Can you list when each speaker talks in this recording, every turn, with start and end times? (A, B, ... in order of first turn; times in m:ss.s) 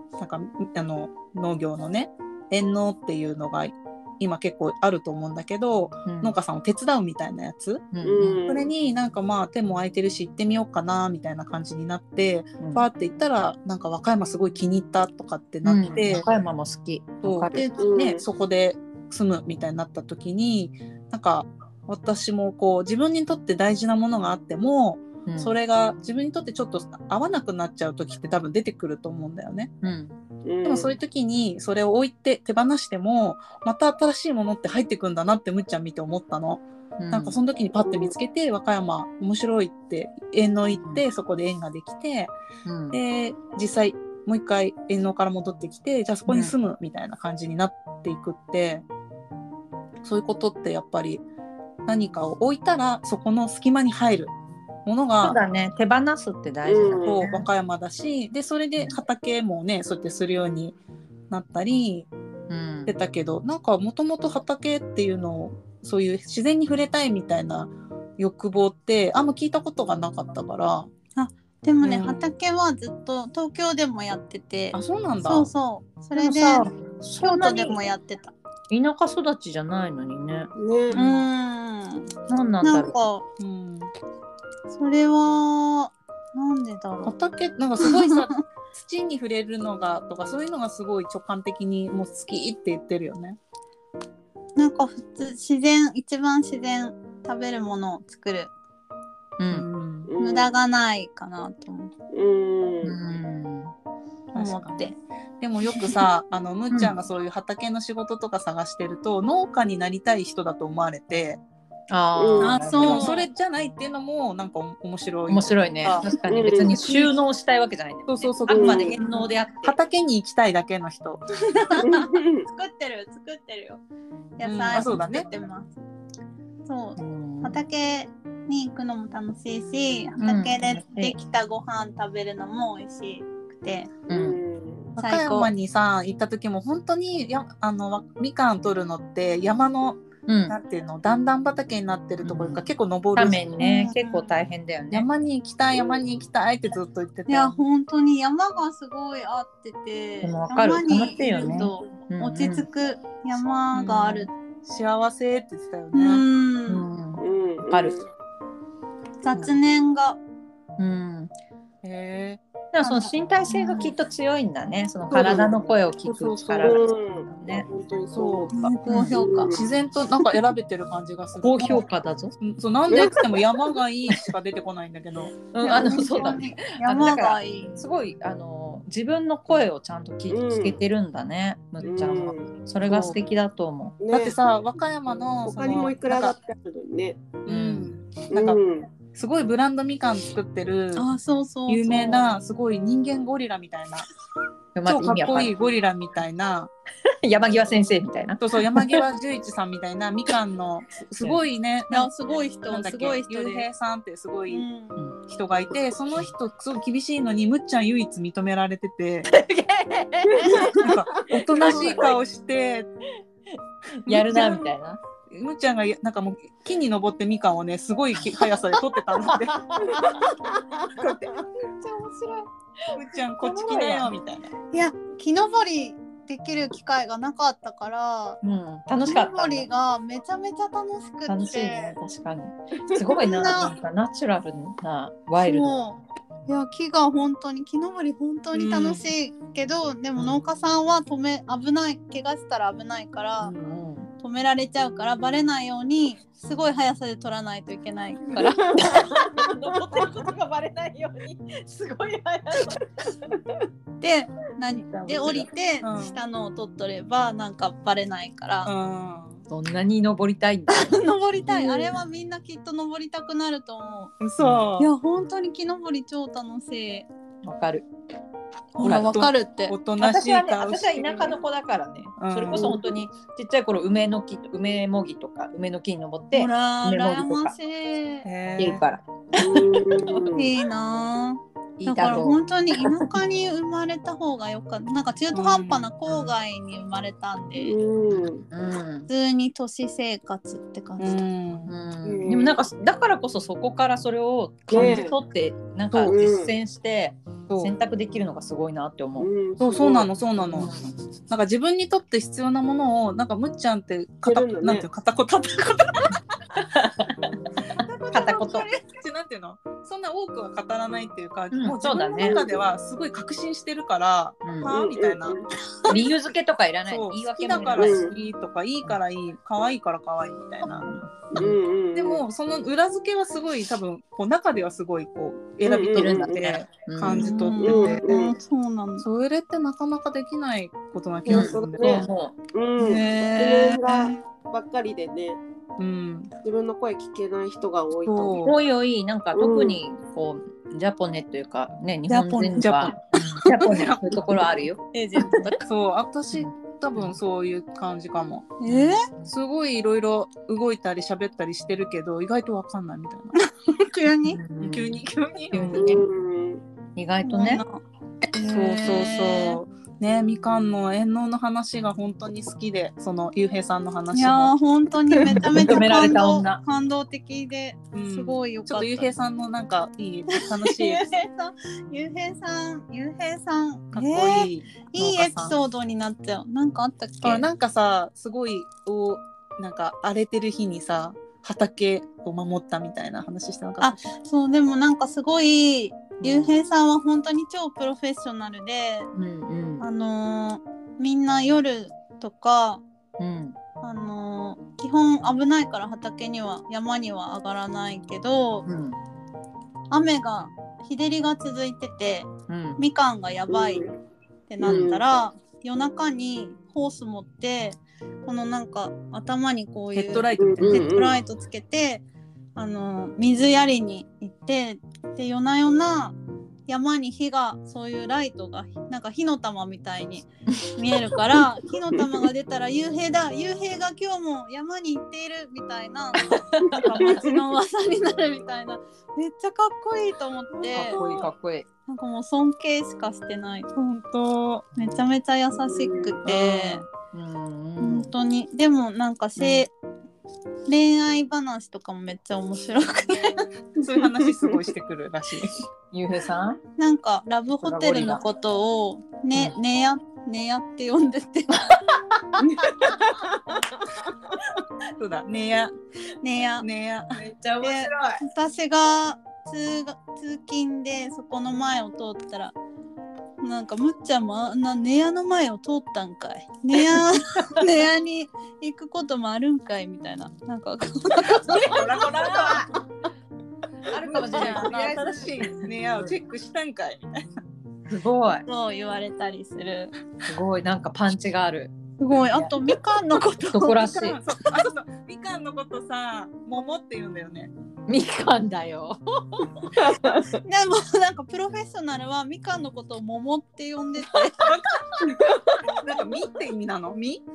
0:00.2-0:07.9 A
0:06.1-0:06.4 B
0:07.9-0:08.4 B
0:08.0-0:08.7 C
0:08.5-0:16.3 A
0:12.6-0:12.9 B
0:15.6-0:17.7 B
0:17.2-0:29.7 A
0:17.8-0:18.2 C
0:25.3-0:25.6 B
0:29.8-0:30.1 B
0:30.4-0:31.0 C
0:30.6-0:42.4 A
0:37.0-0:37.4 B
0:37.8-0:38.1 C
0:40.8-0:41.0 B
0:42.7-0:43.0 B
0:42.9-0:48.8 A
0:46.3-0:46.6 B
0:50.0-0:51.2 A
0:51.9-0:54.3 A
0:54.9-0:55.4 A
0:55.2-0:57.5 B
0:56.6-0:57.3 C
0:57.0-1:00.8 A
1:01.3-1:02.1 A
1:02.5-1:03.0 B
1:02.9-1:10.9 A
1:11.2-1:18.3 D
1:11.8-1:12.2 A
1:14.7-1:15.5 A
1:16.2-1:17.8 B
1:18.7-1:20.5 B
1:20.6-1:21.0 C
1:20.9-1:21.2 A
1:20.9-1:22.1 D
1:22.3-1:23.0 B
1:22.6-1:23.2 D
1:23.4-1:23.9 A
1:24.7-1:27.2 D
1:27.0-1:33.4 A
1:27.8-1:28.2 D
1:34.6-1:38.5 D
1:39.4-1:39.7 B
1:39.5-1:40.1 A
1:40.1-1:40.5 C
1:40.2-1:41.9 D
1:42.1-1:43.0 C
1:42.8-1:43.7 B
1:44.3-1:45.0 D
1:44.3-1:51.4 A
1:51.9-1:53.2 B
1:52.2-1:52.6 C
1:52.4-1:53.2 D
1:52.7-1:56.1 A
1:55.3-1:59.8 B
1:56.3-1:56.8 C
1:56.6-1:57.1 A
1:58.1-2:01.2 A
1:58.5-1:59.0 C
2:01.5-2:03.8 D
2:01.8-2:02.5 C
2:04.4-2:05.7 D
2:04.4-2:05.3 A
2:06.7-2:13.9 D
2:07.0-2:07.6 B
2:10.2-2:11.2 B
2:14.1-2:14.9 C
2:14.1-2:14.4 B
2:15.0-2:23.4 A
2:15.0-2:15.5 D
2:20.3-2:20.6 B
2:22.2-2:25.1 B
2:23.6-2:24.3 D
2:24.9-2:27.6 A
2:27.3-2:34.3 D
2:30.2-2:32.7 B
2:33.7-2:36.2 A
2:35.9-2:36.8 D
2:36.7-2:38.0 B
2:37.2-2:38.0 C
2:39.2-2:40.2 D
2:40.8-2:41.3 B
2:41.8-2:42.4 A
2:42.7-2:47.7 B
2:42.8-2:43.9 D
2:45.1-2:45.5 A
2:45.1-2:45.6 C
2:46.0-2:46.8 A
2:46.6-2:48.6 C
2:48.1-2:48.7 A
2:48.5-2:49.6 D
2:48.9-2:49.2 B
2:49.1-2:49.7 C
2:49.5-2:51.9 A
2:51.4-2:52.4 B
2:52.4-2:55.3 A
2:52.9-2:53.3 C
2:55.5-3:04.0 B
2:55.6-2:57.8 D
3:00.3-3:00.8 C
3:01.8-3:02.5 C
3:02.9-3:03.2 A
3:04.0-3:04.4 C
3:04.1-3:06.4 A
3:05.4-3:07.2 C
3:07.4-3:08.6 A
3:07.5-3:08.0 B
3:08.3-3:08.9 C
3:09.1-3:11.1 A
3:11.0-3:12.3 D
3:11.7-3:14.1 A
3:14.8-3:15.5 B
3:14.9-3:16.7 A
3:17.1-3:19.0 B
3:18.4-3:22.1 A
3:21.9-3:23.7 D
3:22.7-3:24.6 A
3:24.5-3:25.0 D
3:25.3-3:29.3 A
3:29.3-3:32.2 B
3:30.3-3:30.8 C
3:30.7-3:32.9 A
3:33.9-3:35.0 B
3:34.1-3:34.7 A
3:35.3-3:40.2 A
3:39.3-3:40.4 B
3:40.0-3:41.2 C
3:40.9-3:41.5 A
3:41.8-3:42.4 D
3:42.8-3:44.1 B
3:42.9-3:44.5 A
3:44.7-3:48.4 D
3:48.4-3:49.7 B
3:49.0-3:52.0 D
3:51.3-3:55.8 B
3:53.1-3:53.8 D
3:55.4-4:03.5 D
3:58.5-3:59.1 A
4:03.4-4:04.1 B
4:04.2-4:09.0 D
4:08.5-4:13.3 B
4:08.7-4:09.5 C
4:14.0-4:18.7 D
4:14.9-4:15.5 B
4:15.8-4:16.2 A
4:18.6-4:19.4 A
4:19.5-4:22.0 B
4:20.7-4:24.1 D
4:24.2-4:24.9 A
4:24.4-4:24.7 B
4:24.8-4:27.1 D
4:27.4-4:27.9 B
4:28.8-4:29.8 D
4:28.8-4:31.4 A
4:28.8-4:29.1 B
4:30.0-4:37.6 B
4:32.2-4:32.8 A
4:32.5-4:32.8 C
4:36.3-4:38.3 D
4:38.2-4:38.8 A
4:38.6-4:40.3 B
4:39.3-4:40.5 C
4:40.4-4:47.8 D
4:41.8-4:43.2 B
4:45.3-4:45.9 A
4:47.6-4:48.4 C
4:48.5-4:49.1 B
4:49.1-4:51.2 D
4:51.0-4:51.7 A
4:51.7-4:59.3 B
4:52.0-4:52.6 C
4:54.7-4:55.2 C
4:54.7-4:55.0 A
4:56.0-4:56.6 C
4:57.5-4:57.7 A
4:59.2-5:00.1 C
4:59.6-5:00.7 A
5:00.5-5:00.9 B
5:01.3-5:06.2 A
5:04.2-5:04.9 C
5:06.6-5:07.4 B
5:08.0-5:16.1 A
5:08.1-5:08.7 B
5:11.5-5:12.4 B
5:12.2-5:12.6 C
5:14.4-5:14.7 B
5:14.7-5:15.5 C
5:15.9-5:18.2 B
5:16.9-5:20.9 A
5:17.8-5:18.1 C
5:20.6-5:21.6 B
5:21.3-5:22.2 C
5:22.0-5:28.0 A
5:25.6-5:26.4 C
5:25.9-5:27.6 B
5:27.1-5:29.1 D
5:27.6-5:28.4 C
5:29.0-5:32.1 A
5:31.3-5:35.4 C
5:31.3-5:32.4 B
5:32.8-5:34.2 A
5:35.8-5:36.3 A
5:36.4-5:38.5 C
5:38.1-5:38.6 A
5:38.4-5:45.6 B
5:39.3-5:39.8 C
5:42.1-5:44.5 A
5:44.9-5:45.6 D
5:45.6-5:48.5 A
5:46.3-5:47.2 B
5:48.6-5:49.0 D
5:48.7-5:49.3 B
5:49.3-5:53.4 A
5:53.4-5:54.4 D
5:54.3-5:56.0 B
5:54.6-5:56.0 A
5:55.7-5:56.6 C
5:57.0-5:57.6 B
5:57.2-5:57.8 D
5:58.3-5:59.6 D
5:58.4-6:04.5 A
6:04.1-6:09.1 D
6:05.2-6:06.6 B
6:07.9-6:11.1 A
6:10.3-6:17.5 D
6:13.9-6:15.6 A
6:17.2-6:24.0 A
6:23.8-6:29.1 D
6:26.2-6:26.6 B
6:29.1-6:29.9 B
6:29.8-6:32.8 D
6:33.2-6:33.6 B
6:33.8-6:38.7 D
6:38.7-6:39.0 B
6:39.9-6:43.9 D
6:42.5-6:42.8 B
6:43.5-6:43.9 C
6:44.5-6:52.0 D
6:44.6-6:45.0 C
6:44.6-6:44.9 B
6:49.9-6:51.0 A
6:50.4-6:51.2 C
6:52.6-6:56.2 D
6:56.7-7:11.0 D
7:06.2-7:07.2 B
7:07.1-7:07.4 C
7:10.6-7:11.3 A
7:10.7-7:11.7 B
7:11.9-7:13.7 D
7:13.7-7:14.8 A
7:14.8-7:15.0 B
7:14.8-7:16.8 D
7:15.6-7:16.2 C
7:16.3-7:18.1 B
7:17.8-7:19.7 D
7:19.4-7:19.6 B
7:20.7-7:23.4 D
7:23.8-7:25.6 A
7:25.9-7:26.6 B
7:26.8-7:31.8 D
7:27.6-7:28.2 B
7:32.4-7:33.8 C
7:35.0-7:35.7 A
7:36.2-7:36.7 D
7:36.6-7:37.2 A
7:37.2-7:38.2 B
7:37.6-7:42.6 D
7:43.4-7:52.0 D
7:51.5-7:52.7 B
7:51.5-7:52.7 A
7:53.9-7:56.2 B
7:54.0-7:57.3 A
7:57.9-7:58.5 B
7:58.5-7:59.9 D
8:00.3-8:02.6 B
8:02.0-8:03.9 D
8:03.5-8:04.2 B
8:03.7-8:07.5 A
8:07.9-8:09.9 B
8:09.8-8:10.3 C
8:10.4-8:14.5 D
8:14.4-8:17.2 A
8:15.1-8:15.5 C